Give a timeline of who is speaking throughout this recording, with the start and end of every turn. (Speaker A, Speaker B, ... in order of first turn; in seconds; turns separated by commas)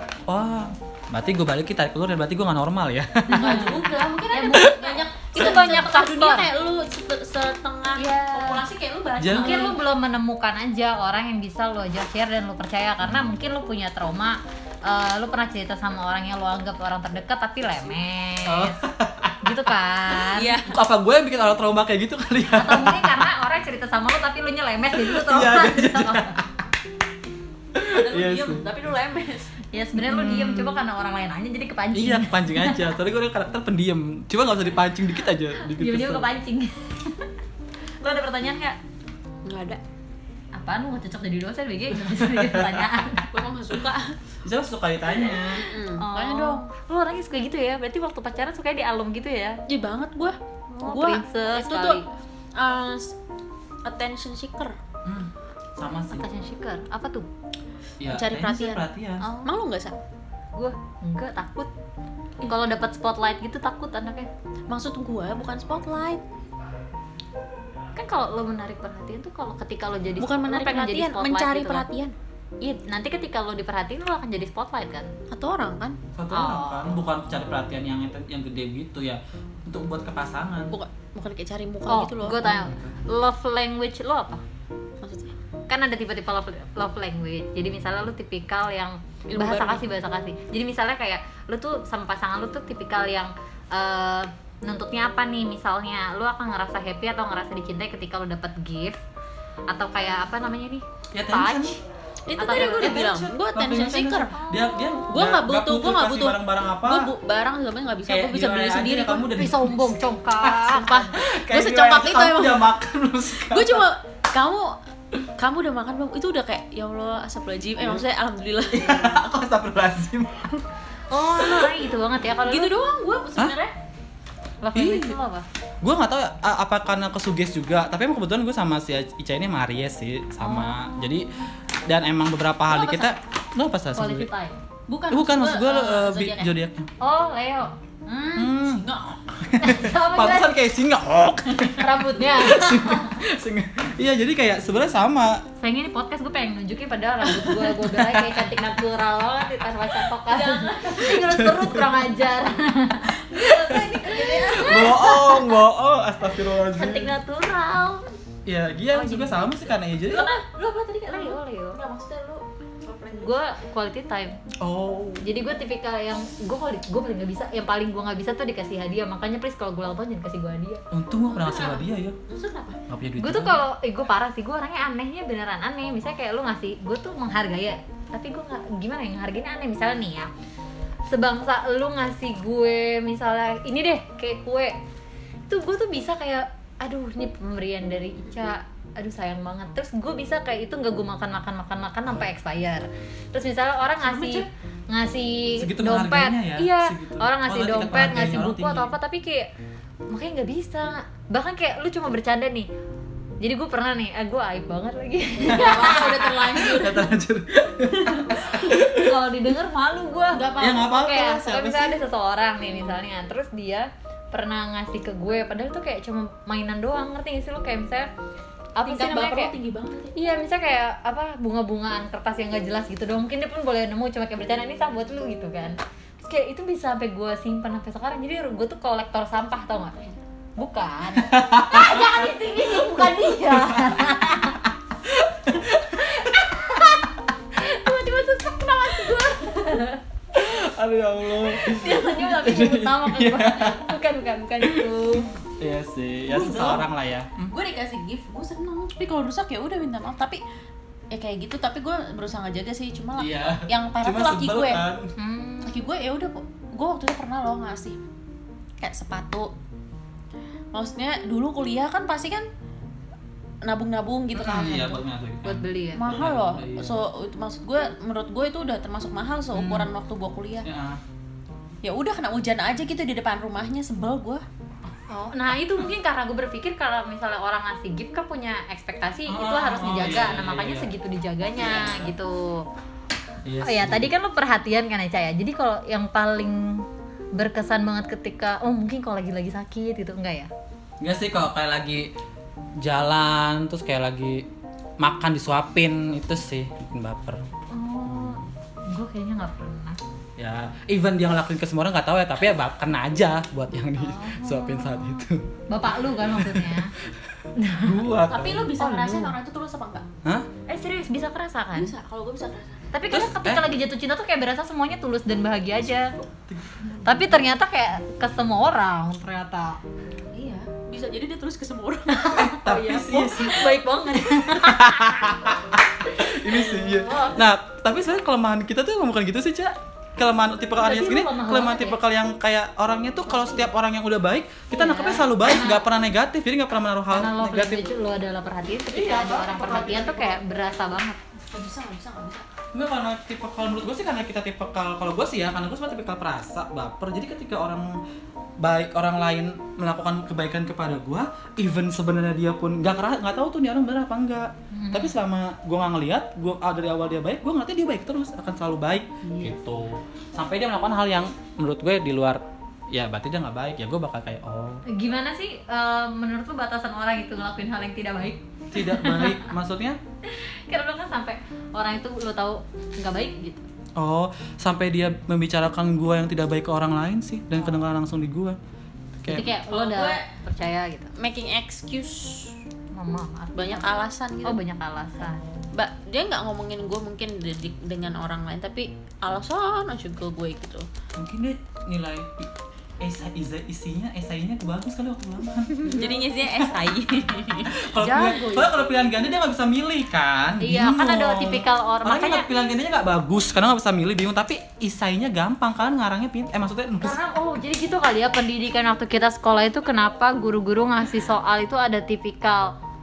Speaker A: 0.3-3.9, Speaker B: 3.3-6.5, Speaker C: 3.3-9.8, Speaker B: 8.0-8.6, Speaker A: 9.2-9.7, Speaker B: 9.3-18.8, Speaker A: 18.4-19.6, Speaker B: 19.4-20.6, Speaker C: 20.3-20.8, Speaker A: 20.7-23.3, Speaker B: 22.5-26.4, Speaker A: 24.9-26.5, Speaker A: 27.7-28.6, Speaker C: 27.9-29.5, Speaker B: 29.7-32.9, Speaker A: 30.0-30.8, Speaker A: 31.9-36.3, Speaker B: 35.6-37.3, Speaker B: 38.0-38.8, Speaker C: 39.4-39.8, Speaker B: 40.5-43.3, Speaker A: 42.0-42.9, Speaker C: 43.3-44.1, Speaker A: 44.4-45.6, Speaker C: 45.3-46.7, Speaker B: 46.0-49.6, Speaker C: 49.7-52.0, Speaker B: 50.8-52.0, Speaker C: 52.5-53.1, Speaker C: 53.8-54.8, Speaker A: 55.0-56.2, Speaker B: 56.1-57.3, Speaker A: 58.0-59.2, Speaker C: 58.1-58.8, Speaker B: 59.2-59.5, Speaker C: 59.4-60.0, Speaker B: 60.5-61.7, Speaker B: 62.4-64.3, Speaker C: 64.7-66.2, Speaker B: 68.0-71.8, Speaker C: 70.2-72.1, Speaker B: 72.6-75.1, Speaker C: 75.3-76.0, Speaker A: 76.2-80.7, Speaker B: 76.3-77.0, Speaker C: 80.7-82.5, Speaker B: 81.9-84.4, Speaker A: 82.4-83.0, Speaker C: 85.0-85.3, Speaker B: 85.7-99.0, Speaker C: 89.3-89.8, Speaker B: 99.7-101.8, Speaker A: 101.1-101.8, Speaker C: 102.3-104.4, Speaker B: 102.4-103.1, Speaker A: 102.8-107.1, Speaker B: 104.5-104.8, Speaker C: 105.1-109.3, Speaker A: 108.1-113.9, Speaker B: 109.3-111.2, Speaker C: 110.8-112.7, Speaker C: 113.5-114.8, Speaker C: 115.4-119.2, Speaker A: 118.7-120.6, Speaker B: 121.1-122.7, Speaker C: 122.4-123.7, Speaker B: 124.6-125.5, Speaker A: 124.7-125.2, Speaker A: 125.8-131.3, Speaker B: 130.4-131.1, Speaker A: 131.9-134.3, Speaker C: 132.7-133.1, Speaker B: 133.9-134.6, Speaker C: 134.9-136.5, Speaker A: 135.1-136.9, Speaker B: 137.0-137.7, Speaker C: 138.1-139.2, Speaker A: 138.4-145.4, Speaker B: 139.6-140.5, Speaker B: 141.8-143.2, Speaker B: 145.6-153.2, Speaker A: 147.3-148.5, Speaker C: 150.3-151.2, Speaker A: 151.1-152.0, Speaker C: 153.0-155.3, Speaker A: 153.4-157.2, Speaker B: 154.1-155.6, Speaker B: 156.7-158.1, Speaker A: 158.4-160.3, Speaker B: 158.9-159.7, Speaker C: 160.1-163.4, Speaker B: 161.1-161.8, Speaker B: 163.1-164.4, Speaker A: 164.6-165.2, Speaker B: 165.2-170.8, Speaker A: 170.9-172.2, Speaker C: 171.3-172.8, Speaker A: 172.9-173.6, Speaker B: 173.2-180.3, Speaker B: 181.1-184.8, Speaker B: 185.5-199.5, Speaker C: 194.0-194.4, Speaker A: 195.6-198.9, Speaker B: 200.1-202.7, Speaker B: 203.4-206.5, Speaker C: 205.4-207.1, Speaker A: 205.5-209.2, Speaker B: 208.0-218.1, Speaker C: 210.3-210.9, Speaker A: 210.6-212.0, Speaker B: 218.8-219.5, Speaker C: 218.8-220.2, Speaker B: 220.1-229.9, Speaker B: 230.6-234.6, Speaker A: 231.2-236.6, Speaker B: 235.9-240.0, Speaker A: 240.3-243.9, Speaker B: 241.4-245.3, Speaker A: 244.6-247.5, Speaker C: 246.3-246.9, Speaker C: 247.5-250.4, Speaker C: 251.1-254.8, Speaker A: 253.2-255.1, Speaker B: 255.2-255.8, Speaker C: 255.6-258.0, Speaker C: 258.8-259.5, Speaker C: 260.7-262.4, Speaker C: 263.6-265.0, Speaker A: 264.4-267.0, Speaker B: 265.4-266.0, Speaker C: 265.9-270.7, Speaker A: 269.5-269.9, Speaker A: 270.6-271.0, Speaker C: 271.8-274.4, Speaker B: 275.1-282.6, Speaker A: 279.3-280.9, Speaker A: 283.4-284.1, Speaker B: 283.6-290.5, Speaker A: 291.0-292.1, Speaker A: 292.8-294.5, Speaker A: 295.0-297.4, Speaker B: 297.7-300.0, Speaker A: 298.0-298.5, Speaker A: 300.4-307.1, Speaker B: 303.9-306.9, Speaker B: 307.6-308.0, Speaker A: 307.8-309.3, Speaker C: 308.3-310.1, Speaker B: 310.7-311.9, Speaker C: 311.7-312.9, Speaker B: 312.9-316.1, Speaker A: 313.1-313.7, Speaker A: 316.1-317.3, Speaker B: 317.0-319.8, Speaker C: 320.3-322.3, Speaker B: 322.1-325.5, Speaker A: 322.3-323.6, Speaker C: 323.4-323.8, Speaker A: 324.4-337.9, Speaker C: 326.9-327.4, Speaker B: 330.8-332.0, Speaker C: 333.3-333.6, Speaker B: 334.7-335.8, Speaker B: 337.1-341.2, Speaker A: 338.9-340.4, Speaker C: 339.8-340.1, Speaker C: 341.5-342.4, Speaker A: 342.7-348.0, Speaker A: 348.6-364.8, Speaker B: 354.7-355.1, Speaker B: 359.3-359.5, Speaker B: 364.9-369.5, Speaker A: 368.7-370.0, Speaker B: 370.3-373.7, Speaker A: 373.9-378.6, Speaker A: 379.2-379.5, Speaker B: 379.2-381.1, Speaker C: 379.7-380.3, Speaker C: 381.2-382.6, Speaker B: 382.9-385.5, Speaker C: 383.5-384.6, Speaker C: 385.7-390.9, Speaker A: 391.1-396.8, Speaker C: 395.8-398.8, Speaker A: 397.7-407.2, Speaker B: 400.6-402.5, Speaker B: 407.0-412.7